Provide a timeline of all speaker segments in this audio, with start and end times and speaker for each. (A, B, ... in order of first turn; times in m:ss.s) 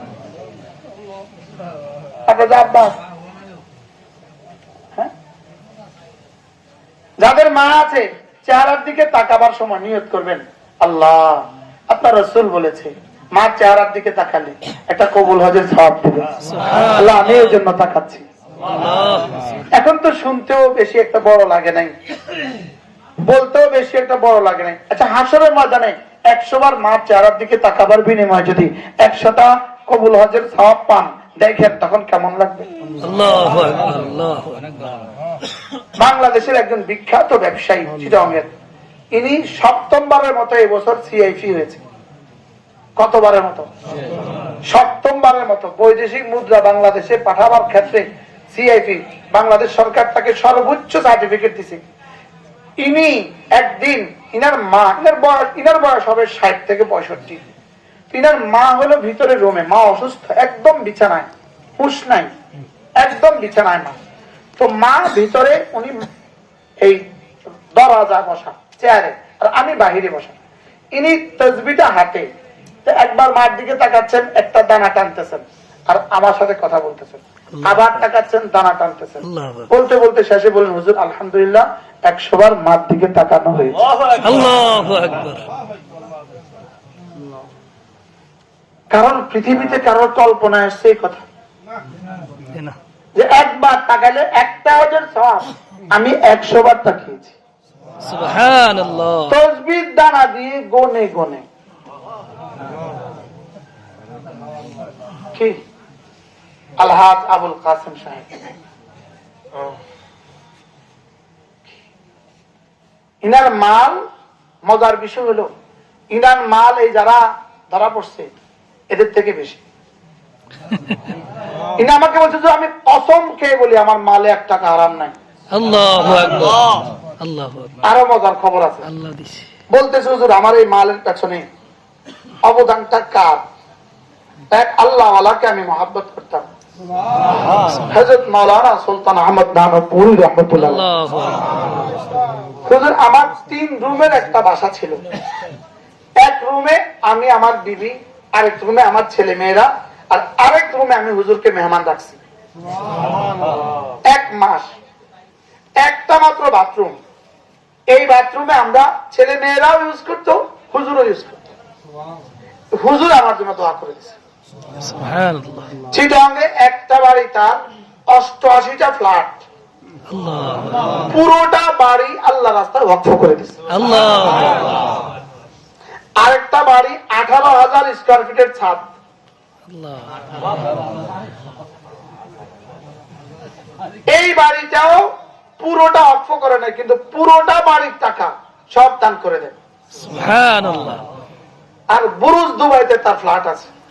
0:02.3-0:03.0 A
0:07.2-0:18.2 A
0:16.4-0:17.6 B
0:18.6-0:19.6 B
0:19.7-0:21.9 A
0:23.2-0:32.7 A
0:33.0-0:34.8 B
0:36.0-0:38.5 A
0:39.1-0:41.8 A
0:43.0-0:43.7 A
0:44.7-0:51.8 A
0:52.8-0:57.4 A
0:58.1-1:02.3 A
1:03.0-1:03.9 A
1:04.6-1:06.1 A
1:07.7-1:10.4 A
1:10.9-1:12.2 A
1:12.8-1:23.8 A
1:17.5-1:18.0 B
1:19.2-1:19.7 B
1:24.2-1:25.5 B
1:28.9-1:31.2 A
1:33.2-1:37.4 A
1:38.0-1:39.3 B
1:39.3-1:41.4 A
1:45.3-1:45.6 A
1:46.8-1:48.4 A
1:53.2-1:54.0 A
1:54.6-1:55.5 A
1:56.1-1:58.4 A
1:58.9-1:59.6 A
2:00.7-2:01.0 B
2:01.8-2:05.1 A
2:05.5-2:07.8 B
2:07.8-2:08.9 A
2:08.8-2:09.5 B
2:09.7-2:11.4 A
2:12.4-2:13.4 A
2:14.5-2:16.5 A
2:17.5-2:17.9 B
2:17.9-2:20.8 A
2:20.5-2:21.7 B
2:22.6-2:25.0 A
2:26.2-2:32.2 A
2:34.0-2:34.7 A
2:35.8-2:37.0 A
2:37.9-2:41.5 A
2:42.7-2:44.2 A
2:44.8-2:45.7 B
2:45.9-2:47.6 A
2:48.1-2:49.4 A
2:50.1-2:51.1 B
2:51.1-2:53.6 A
2:53.7-2:54.7 B
2:56.2-2:58.9 A
2:59.7-3:00.5 B
3:04.1-3:05.0 A
3:05.6-3:09.5 A
3:10.0-3:11.0 B
3:11.9-3:13.7 A